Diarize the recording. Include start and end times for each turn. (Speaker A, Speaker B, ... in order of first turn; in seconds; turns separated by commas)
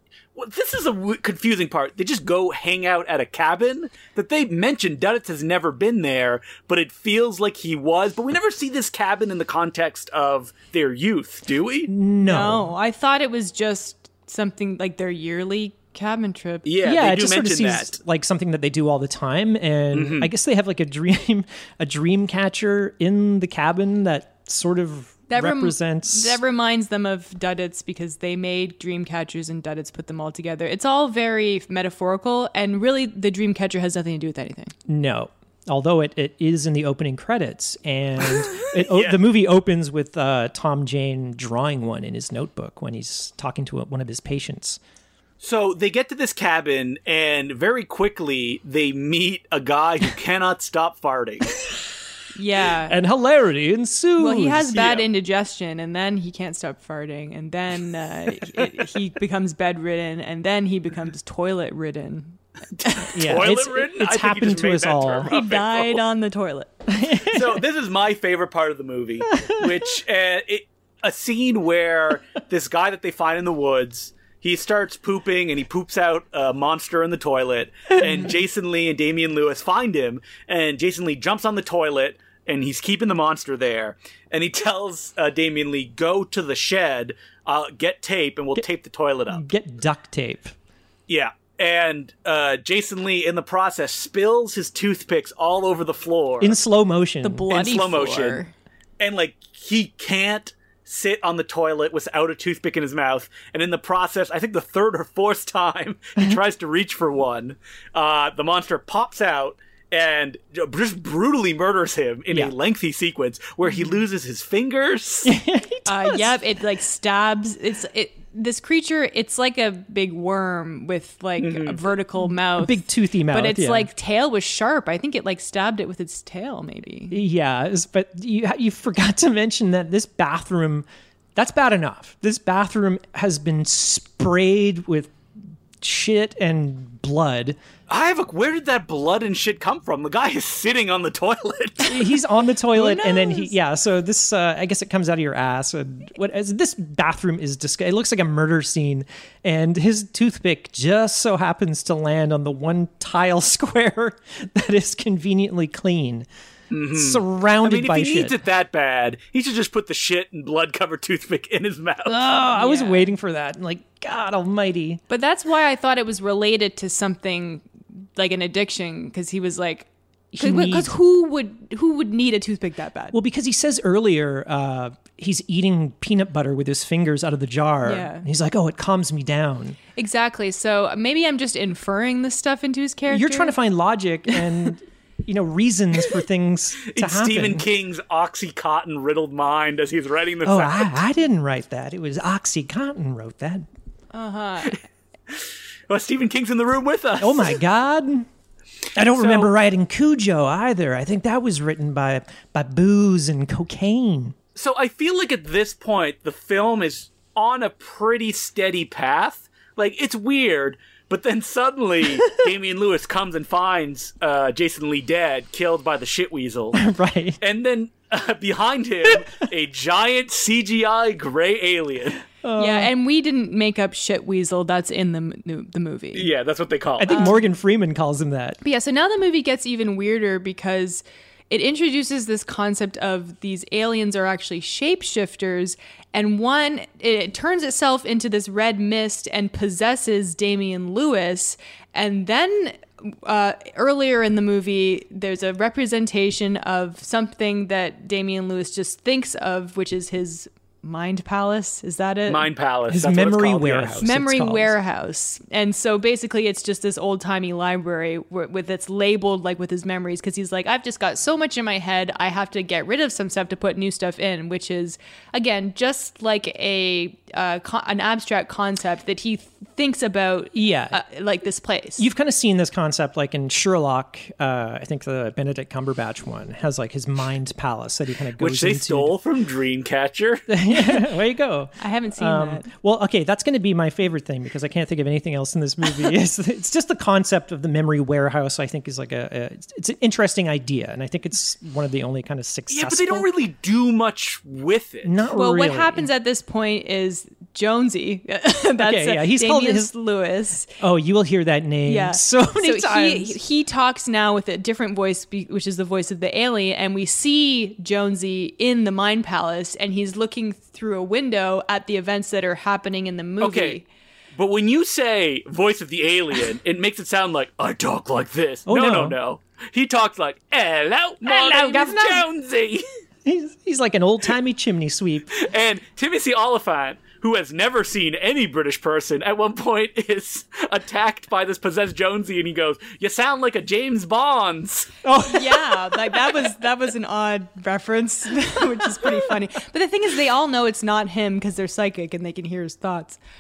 Speaker A: 0.3-11.9, Speaker B: 11.9-12.7, Speaker C: 12.3-16.7, Speaker A: 16.7-18.0, Speaker B: 16.8-26.4, Speaker A: 19.9-20.3, Speaker C: 25.3-34.7, Speaker B: 34.9-44.8, Speaker A: 38.7-39.2, Speaker A: 45.4-51.6, Speaker C: 52.4-53.0, Speaker B: 52.9-54.9, Speaker C: 54.2-63.0, Speaker A: 54.7-55.0, Speaker B: 63.0-65.3, Speaker A: 63.1-66.0, Speaker C: 65.3-66.7, Speaker B: 66.9-67.6, Speaker A: 67.2-89.5, Speaker B: 69.4-69.7, Speaker B: 89.3-90.5, Speaker A: 91.1-96.6, Speaker B: 96.4-97.5, Speaker C: 97.2-98.5, Speaker A: 97.5-98.4, Speaker A: 99.0-115.3, Speaker B: 115.2-116.3, Speaker C: 115.9-127.2, Speaker A: 121.4-121.8, Speaker B: 122.2-123.9, Speaker B: 127.1-135.2, Speaker B: 135.8-137.6, Speaker A: 137.9-142.0, Speaker B: 141.9-156.3, Speaker C: 142.7-143.5, Speaker A: 156.7-162.2, Speaker B: 156.9-158.4, Speaker B: 162.1-165.0, Speaker C: 162.4-163.1, Speaker C: 165.1-173.2, Speaker B: 170.3-171.0, Speaker B: 173.1-179.8, Speaker C: 177.8-178.3, Speaker C: 180.0-183.6, Speaker B: 183.1-187.7, Speaker A: 186.8-191.0, Speaker B: 190.4-193.7, Speaker C: 194.1-194.8, Speaker A: 195.3-197.6, Speaker B: 197.2-198.3, Speaker B: 198.9-204.4, Speaker A: 199.1-199.5, Speaker A: 204.6-216.8, Speaker B: 216.7-217.4, Speaker A: 217.4-222.2, Speaker B: 222.4-222.9, Speaker C: 222.6-226.3, Speaker A: 226.2-227.3, Speaker B: 227.0-228.6, Speaker C: 227.1-227.4, Speaker C: 228.6-252.5, Speaker A: 252.3-254.0, Speaker B: 252.9-254.8, Speaker C: 254.0-272.1, Speaker B: 270.5-271.0, Speaker B: 272.0-279.1, Speaker A: 278.4-280.5, Speaker B: 280.5-293.3, Speaker C: 281.8-282.7, Speaker A: 292.7-295.1, Speaker B: 295.1-296.1, Speaker C: 295.3-300.7, Speaker B: 298.8-299.9, Speaker B: 300.8-303.4, Speaker C: 301.9-313.9, Speaker A: 313.4-313.8, Speaker A: 314.4-322.8, Speaker B: 318.7-319.2, Speaker B: 321.2-322.3, Speaker B: 323.2-325.3, Speaker A: 325.4-334.9, Speaker B: 335.0-336.2, Speaker C: 335.3-343.2